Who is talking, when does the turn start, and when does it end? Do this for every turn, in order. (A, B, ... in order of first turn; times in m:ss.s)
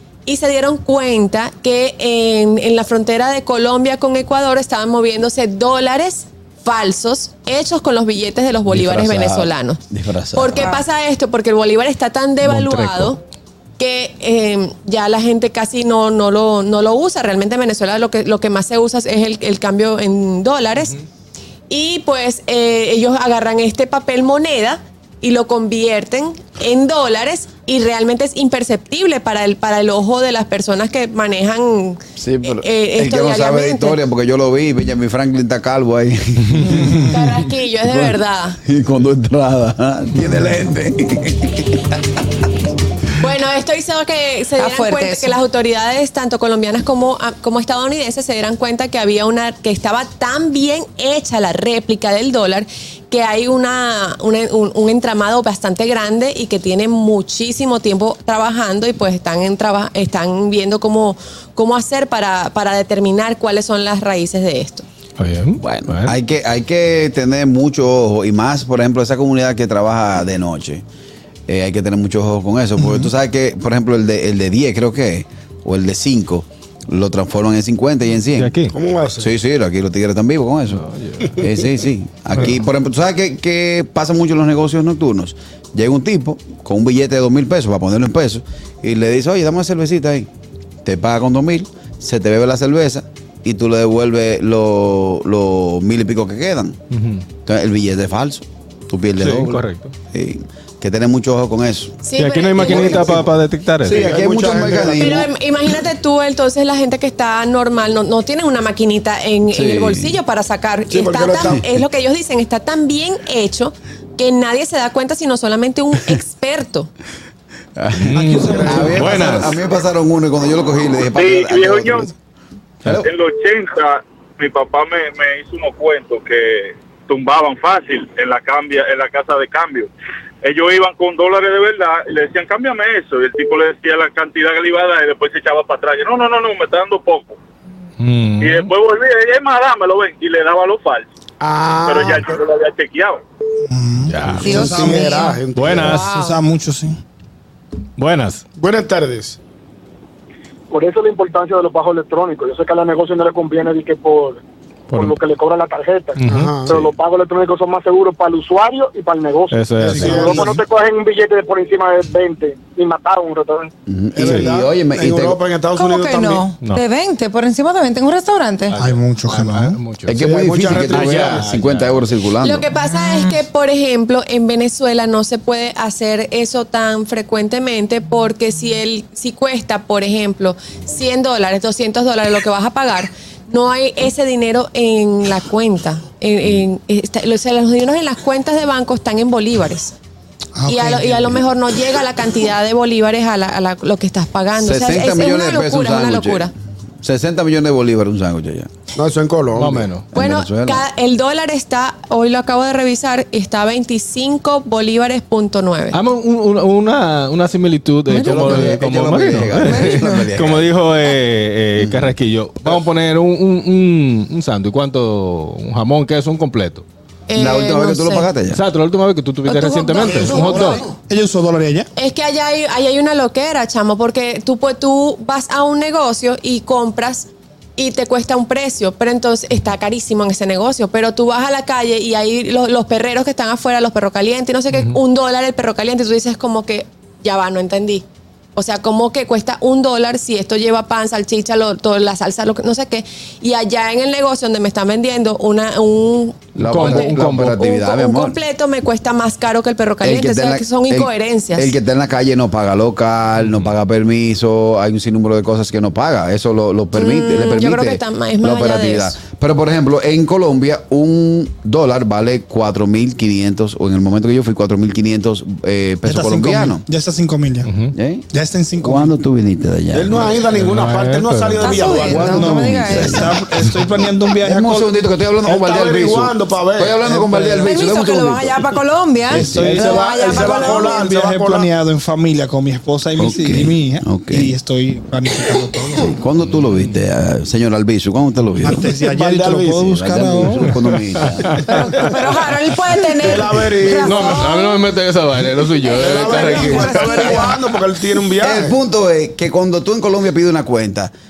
0:00.3-0:09.8 A
0:08.7-0:10.8 B
0:10.4-0:13.2 A
0:12.4-0:13.1 C
0:13.8-0:21.0 A
0:21.7-0:34.0 A
0:32.2-0:37.2 B
0:36.9-0:38.6 A
0:37.9-0:42.0 B
0:43.2-1:04.8 A
0:44.6-0:45.4 D
1:05.2-1:06.2 C
1:05.6-1:10.8 B
1:11.5-1:18.6 B
1:18.3-1:18.7 C
1:18.7-1:19.3 E
1:19.2-1:30.3 B
1:20.7-1:21.4 C
1:30.8-1:36.8 B
1:36.9-1:37.2 C
1:37.5-1:42.0 B
1:39.2-1:39.9 C
1:42.0-1:43.1 A
1:42.2-1:44.1 C
1:42.6-1:43.2 B
1:43.8-1:45.3 B
1:43.8-1:45.2 E
1:45.0-1:56.9 A
1:49.5-1:50.2 B
1:50.9-1:51.6 E
1:57.8-2:02.1 B
1:57.9-1:59.6 C
1:58.1-1:59.3 F
1:58.6-1:59.0 E
2:01.2-2:02.1 G
2:03.0-2:09.9 G
2:10.4-2:17.4 G
2:18.0-2:18.7 C
2:18.4-2:21.1 G
2:21.4-2:22.4 E
2:21.8-2:23.2 G
2:23.7-2:25.1 F
2:24.1-2:24.8 C
2:24.4-2:26.0 E
2:24.4-2:26.4 D
2:25.5-2:26.1 C
2:26.0-2:27.0 F
2:28.0-2:28.4 C
2:28.6-2:29.4 E
2:30.7-2:34.4 H
2:34.9-2:35.2 C
2:35.0-2:36.2 H
2:36.2-2:36.9 C
2:36.2-2:36.9 E
2:36.8-2:39.6 H
2:39.5-2:40.4 C
2:39.8-2:40.4 E
2:39.8-2:40.7 F
2:40.2-2:43.7 H
2:43.9-2:45.4 B
2:44.1-2:46.5 E
2:44.2-2:44.5 C
2:45.8-2:48.8 D
2:48.7-2:52.1 C
2:48.8-2:49.8 F
2:50.1-2:52.7 B
2:50.1-2:51.5 E
2:52.4-3:09.9 A
2:52.7-2:53.4 D
3:10.6-3:11.4 F
3:10.7-3:16.5 A
3:14.6-3:16.5 B
3:17.0-3:18.7 B
3:19.0-3:20.0 E
3:19.5-3:20.1 C
3:20.1-3:20.8 B
3:20.1-3:26.0 A
3:25.9-3:36.8 C
3:28.1-3:28.8 D
3:28.1-3:30.7 B
3:29.4-3:30.2 D
3:31.8-3:32.2 B
3:37.3-3:38.3 A
3:37.4-3:38.6 B
3:38.5-3:40.8 C
3:39.5-3:40.8 A
3:40.1-3:41.9 F
3:42.0-3:58.0 A
3:58.6-4:11.7 A
4:06.6-4:07.6 C
4:06.6-4:08.4 B
4:10.0-4:26.8 B
4:13.4-4:13.7 C
4:16.9-4:19.2 A
4:26.0-4:27.7 F
4:27.6-4:28.0 C
4:27.9-4:30.4 B
4:28.3-4:29.2 F
4:29.9-4:32.5 E
4:30.5-4:31.8 C
4:31.6-4:33.3 D
4:32.0-4:34.9 F
4:32.3-4:33.3 B
4:34.4-4:38.6 B
4:35.4-4:37.6 E
4:37.6-4:41.2 D
4:39.3-4:40.0 B
4:39.3-4:40.0 F
4:39.8-4:41.7 E
4:40.6-4:46.2 F
4:43.2-4:44.5 B
4:46.1-4:48.9 B
4:46.4-4:47.0 C
4:48.6-4:51.0 F
4:49.0-4:49.8 E
4:49.8-4:51.9 B
4:51.2-4:51.9 C
4:51.6-4:54.9 D
4:53.2-4:54.5 E
4:54.0-4:57.5 C
4:55.9-4:58.8 E
4:55.9-4:57.6 D
4:58.4-5:01.1 B